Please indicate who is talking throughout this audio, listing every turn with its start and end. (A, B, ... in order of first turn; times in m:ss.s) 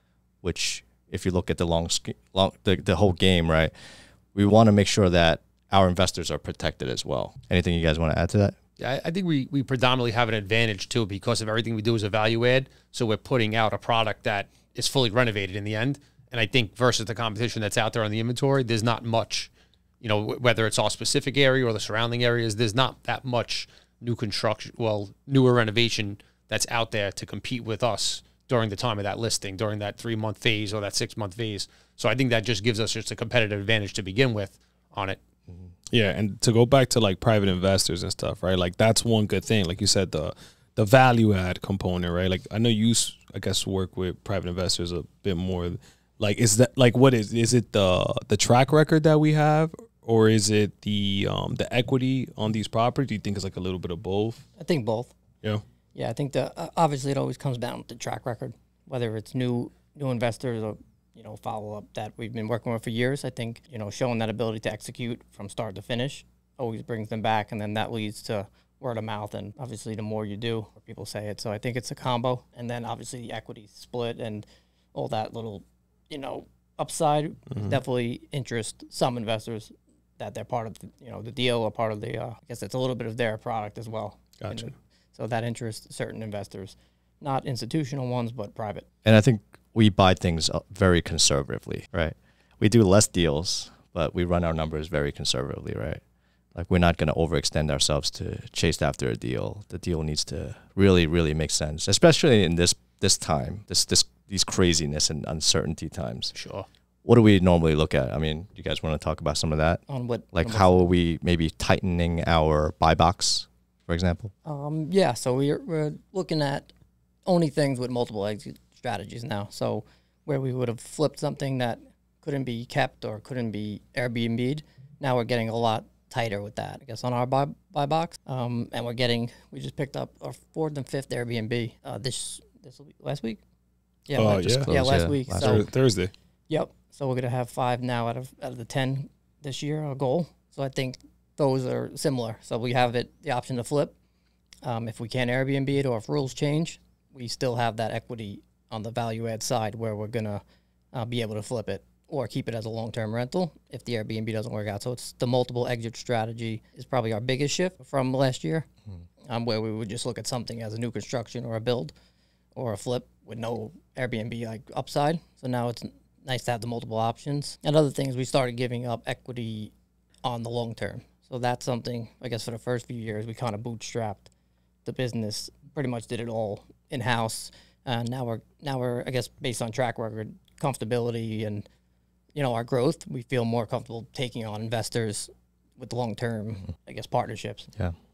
0:00.4-0:03.7 A
0:04.3-0:08.6 A
0:08.8-0:35.2 B
0:35.9-0:54.4 C
0:54.6-0:55.1 D
0:56.0-1:28.9 D
1:17.5-1:17.8 C
1:24.4-1:24.7 C
1:29.0-1:36.0 A
1:36.6-1:46.3 A
1:46.3-1:46.7 B
1:47.0-1:49.8 A
1:49.9-1:50.9 D
1:50.3-1:54.3 A
1:54.4-1:56.7 D
1:57.3-2:13.4 D
2:14.1-2:15.7 D
2:14.2-2:14.7 C
2:14.4-2:15.6 A
2:15.3-2:16.1 C
2:16.5-2:24.0 D
2:24.6-2:38.7 D
2:39.3-2:41.9 D
2:42.6-2:54.3 D
2:54.8-3:01.6 D
3:02.3-3:07.7 D